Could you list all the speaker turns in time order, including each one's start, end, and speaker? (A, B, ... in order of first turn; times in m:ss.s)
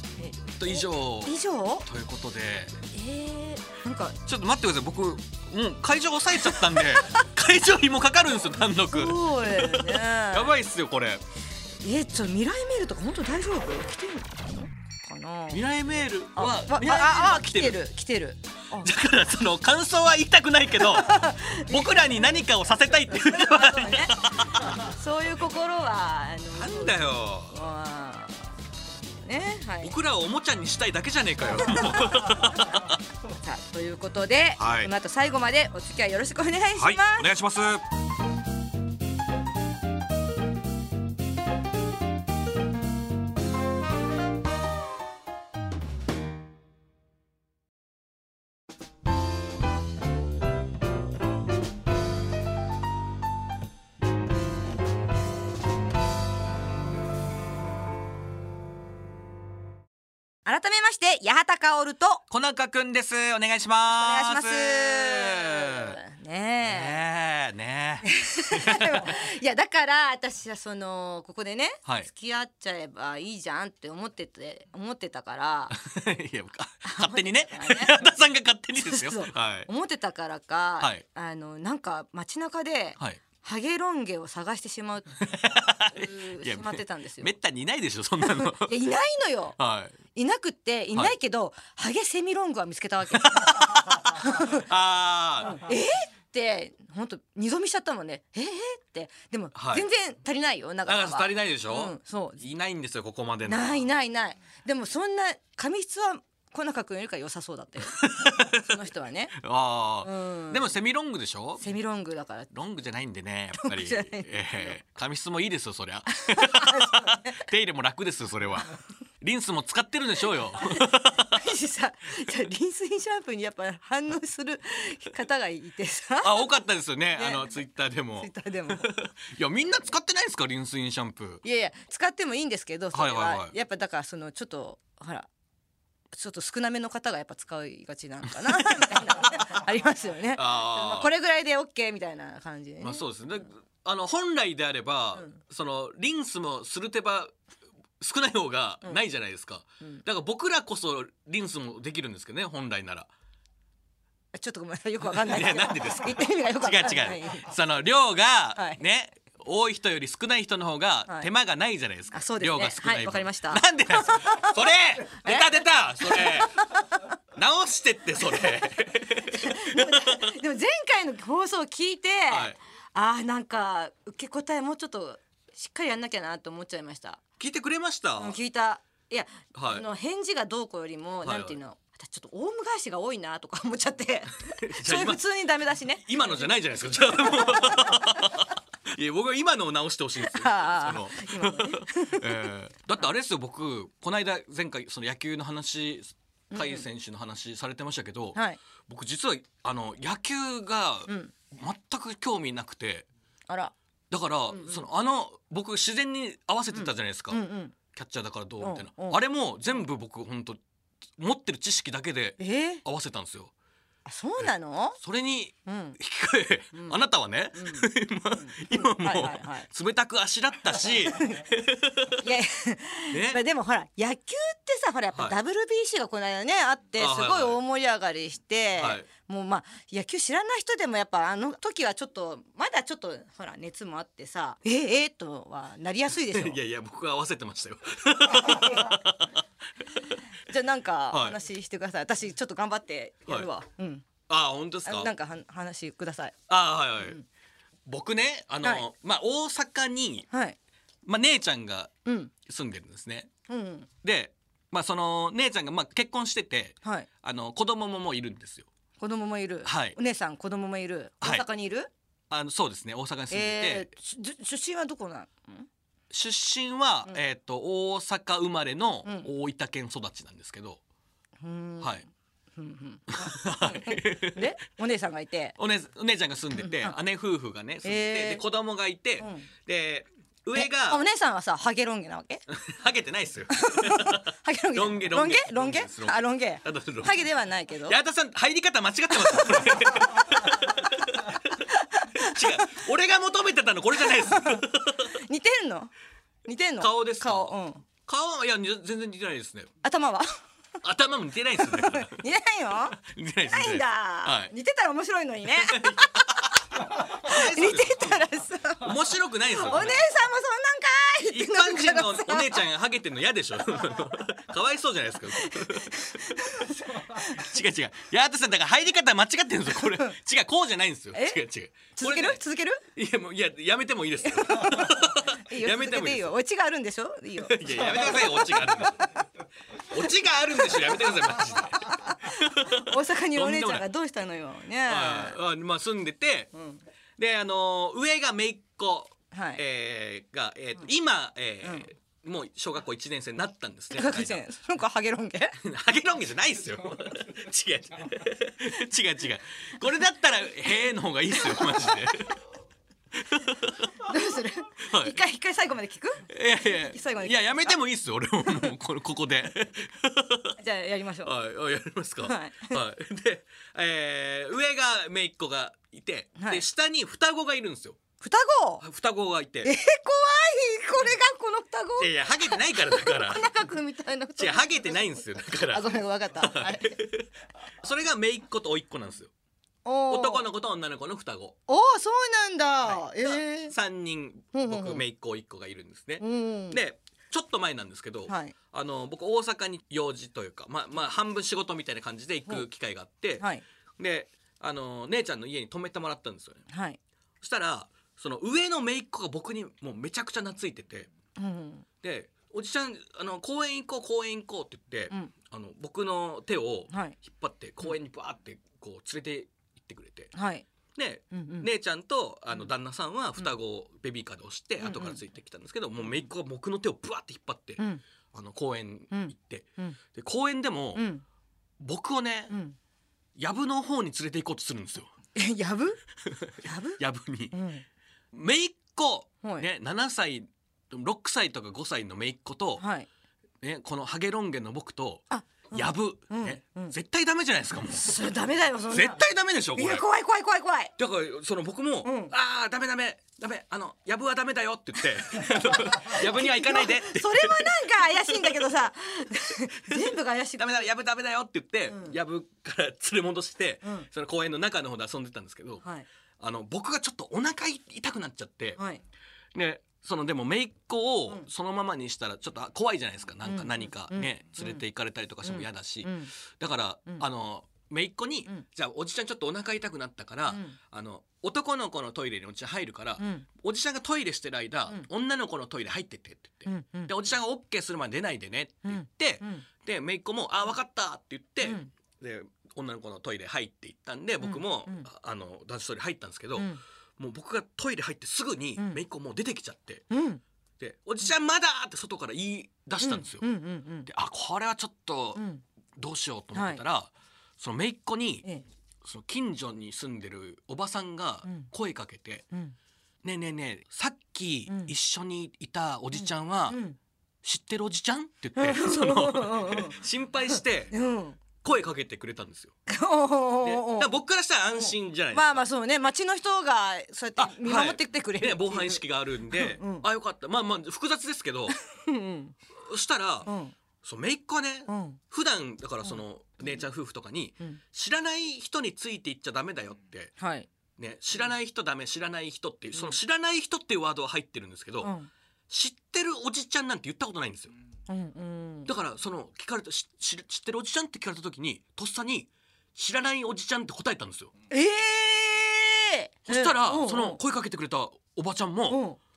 0:00.2-0:01.8 A
0:00.5-0:02.8 B
0:02.9-0:04.2 A
0:04.2-0:11.2 B
0:08.9-0:10.5 A
0:11.8-0:15.6 A
0:15.5-0:17.8 B
0:16.4-0:18.9 A
0:18.8-0:24.8 B
0:20.8-0:22.4 A
0:23.1-0:28.5 A
0:26.6-0:27.6 B
0:29.2-0:29.9 A
0:29.8-0:33.0 B
0:33.4-0:37.3 A
0:34.6-0:34.9 B
0:36.8-0:37.8 B
1:00.4-1:02.2 A
1:02.3-1:06.0 B
1:03.8-1:07.0 A
1:06.6-1:09.1 B
1:08.0-1:15.7 A
1:15.7-1:19.7 B
1:16.8-1:18.0 A
1:18.8-1:25.1 A
1:25.2-1:28.7 B
1:25.9-1:27.3 A
1:28.2-1:29.6 A
1:29.6-1:29.9 B
1:30.1-1:34.7 A
1:33.1-1:35.6 B
1:35.4-1:42.4 A
1:39.5-1:39.8 B
1:40.8-1:43.8 B
1:43.5-1:49.3 A
1:47.9-1:48.7 B
1:49.4-1:51.6 B
1:50.0-1:50.7 A
1:51.6-1:52.5 A
1:52.5-2:01.4 B
1:53.6-1:54.7 A
1:56.1-1:57.4 A
2:00.6-2:06.5 A
2:06.2-2:11.4 B
2:07.2-2:07.5 A
2:08.2-2:08.9 A
2:11.4-2:15.3 A
2:12.9-2:13.5 B
2:16.1-2:23.0 A
2:18.4-2:18.9 B
2:20.3-2:21.1 B
2:22.8-2:27.3 B
2:28.0-2:33.1 B
2:34.3-2:37.5 A
2:35.1-2:46.6 B
2:42.1-2:47.1 A
2:47.4-2:50.4 B
2:48.3-2:48.7 A
2:49.3-2:57.2 A
2:52.3-2:52.6 B
2:57.4-2:58.4 B
2:58.2-3:06.4 A
2:59.5-2:59.8 B
3:01.2-3:01.6 B
3:04.6-3:05.2 B
3:06.0-3:23.1 B
3:07.4-3:08.0 A
3:10.3-3:12.5 A
3:16.5-3:16.8 A
3:21.1-3:21.3 A
3:23.5-3:23.7 A
3:24.1-3:30.6 B
3:24.5-3:24.8 A
3:26.7-3:27.7 A
3:28.6-3:29.2 A
3:31.2-3:33.5 B
3:32.4-3:32.8 A
3:34.0-3:35.0 A
3:35.0-3:42.3 B
3:35.6-3:36.0 A
3:36.7-3:37.0 A
3:37.5-3:39.7 A
3:40.8-3:41.4 A
3:42.2-3:56.6 A
3:43.1-3:43.4 B
3:47.0-3:47.6 B
3:48.8-3:49.1 B
3:56.3-3:59.4 B
3:58.5-3:58.8 A
4:00.5-4:04.0 A
4:01.1-4:01.4 B
4:04.3-4:05.1 B
4:04.8-4:06.3 A
4:06.5-4:07.2 B
4:07.8-4:10.3 B
4:10.3-4:10.6 A
4:11.0-4:11.9 B
4:12.0-4:12.3 A
4:12.4-4:13.3 B
4:13.5-4:13.9 A
4:14.0-4:18.7 B
4:19.0-4:21.9 A
4:19.6-4:20.0 B
4:22.3-4:23.9 B
4:23.3-4:25.7 A
4:26.1-4:30.8 B
4:31.4-4:35.6 A
4:33.1-4:34.5 B
4:35.6-4:41.0 B
4:36.6-4:37.0 A
4:37.8-4:38.4 A
4:39.2-4:39.5 A
4:40.5-4:42.4 A
4:42.5-4:47.2 B
4:43.5-4:48.0 A
4:47.9-4:51.6 B
4:49.1-4:49.7 A
4:51.7-4:52.4 A
4:52.2-4:55.1 B
4:54.2-4:55.9 A
4:56.4-4:57.8 A
4:56.8-4:59.7 B
4:59.8-5:00.3 A
5:00.8-5:02.2 B
5:01.6-5:03.0 A
5:03.0-5:04.5 B
5:03.5-5:06.4 A
5:05.6-5:08.2 B
5:07.0-5:08.9 A
5:08.8-5:10.0 B
5:09.5-5:12.6 A
5:11.3-5:16.2 B
5:15.4-5:17.4 A
5:17.2-5:22.4 B
5:21.1-5:21.4 A
5:22.0-5:22.8 A
5:22.9-5:26.3 B
5:24.3-5:29.0 A
5:27.4-5:29.0 B
5:29.9-5:33.8 B
5:31.8-5:35.4 A
5:34.9-5:36.5 B
5:36.5-5:36.8 A
5:37.2-5:44.4 B
5:39.3-5:39.6 A
5:43.9-5:45.6 A
5:45.6-5:52.4 B
5:53.2-5:53.9 B
5:54.0-5:57.7 A
5:54.8-5:55.2 B
5:56.3-6:00.5 B
6:00.6-6:01.3 A
6:01.2-6:08.0 B
6:02.2-6:02.8 A
6:08.2-6:08.8 A
6:08.8-6:09.7 B
6:09.6-6:15.0 A
6:12.0-6:13.4 B
6:14.4-6:17.3 B
6:15.7-6:17.0 A
6:17.8-6:19.3 B
6:19.8-6:20.4 A
6:20.1-6:21.6 B
6:21.7-6:23.7 A
6:22.9-6:33.4 B
6:24.5-6:25.0 A
6:26.2-6:26.8 A
6:28.3-6:28.5 A
6:34.0-6:36.6 B
6:36.7-6:37.0 A
6:37.4-6:41.1 B
6:41.4-6:41.8 A
6:42.0-6:50.3 B
6:46.9-6:47.2 A
6:50.3-6:50.6 A
6:51.0-6:57.8 B
6:51.3-6:51.7 A
6:54.8-6:55.2 A
6:58.3-7:01.0 B
6:59.1-7:00.0 A
7:00.9-7:01.2 A
7:01.8-7:02.5 B
7:02.5-7:02.8 A
7:03.4-7:05.1 B
7:05.3-7:06.0 A
7:06.6-7:07.0 A
7:07.0-7:07.6 B
7:07.5-7:07.8 A
7:08.3-7:12.8 B
7:12.8-7:13.1 A
7:13.6-7:18.2 B
7:15.3-7:16.9 A
7:17.9-7:19.2 A
7:18.9-7:20.0 B
7:19.8-7:20.9 A
7:21.0-7:27.7 B
7:22.0-7:22.3 A
7:26.0-7:30.9 A
7:29.9-7:35.8 B
7:31.9-7:32.2 A
7:36.4-7:38.8 B
7:38.8-7:39.0 A
7:39.5-8:10.0 B
7:43.4-7:44.8 A
7:45.4-7:46.3 A
7:50.5-7:50.8 A
7:53.2-7:53.4 A
7:56.6-7:57.1 A
7:58.8-7:59.6 A
8:01.6-8:01.9 A
8:04.4-8:05.1 A
8:10.1-8:10.4 A
8:10.8-8:13.4 B
8:13.0-8:14.1 A
8:14.0-8:15.4 B
8:15.3-8:15.6 A
8:16.0-8:18.4 B
8:16.5-8:16.8 A
8:19.0-8:22.4 B
8:23.2-8:26.8 B
8:26.1-8:27.0 A
8:27.4-8:30.9 B
8:28.6-8:30.0 A
8:30.5-8:31.4 A
8:31.6-8:32.8 B
8:32.9-8:34.1 A
8:33.6-8:35.6 B
8:34.8-8:40.0 A
8:37.4-8:41.8 B
8:41.9-8:42.5 A
8:42.9-8:43.5 B
8:43.4-8:43.7 A
8:44.0-8:50.3 B
8:44.9-8:45.2 A
8:50.4-8:50.7 A
8:51.0-8:55.1 B
8:55.0-8:55.3 A
8:55.7-8:57.7 B
8:58.1-8:58.9 A
8:58.8-9:04.5 B
9:04.7-9:07.4 A
9:06.5-9:09.0 B
9:08.9-9:09.2 A